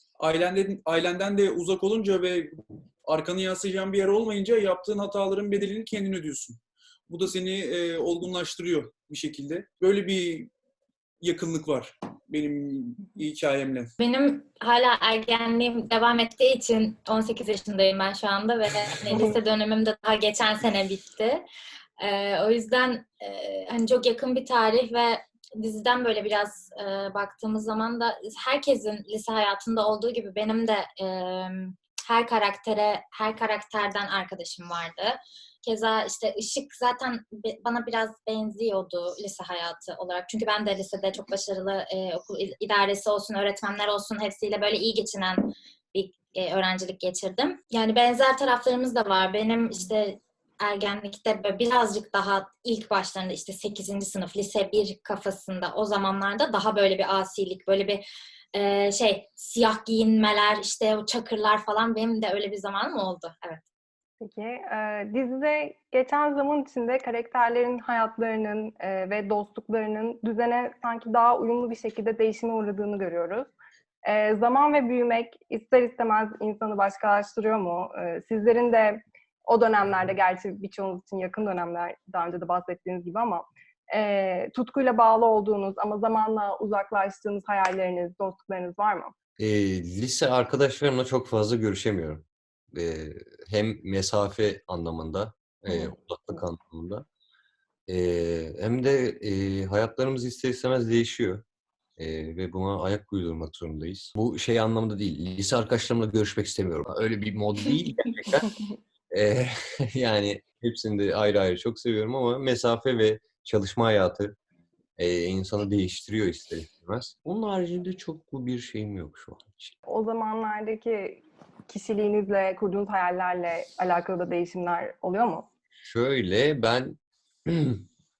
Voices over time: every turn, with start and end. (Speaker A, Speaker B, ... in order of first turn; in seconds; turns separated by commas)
Speaker A: 0.2-10.5, Speaker A: 11.2-13.9, Speaker B: 14.0-21.4, Speaker B: 22.0-58.0, Speaker B: 58.5-63.6, Speaker C: 64.2-73.5, Speaker C: 74.0-89.1, Speaker D: 89.4-97.0, Speaker D: 97.9-101.4, Speaker D: 102.0-108.5, Speaker D: 109.1-114.3, Speaker D: 115.0-119.8, Speaker C: 119.9-125.5, Speaker D: 125.8-127.8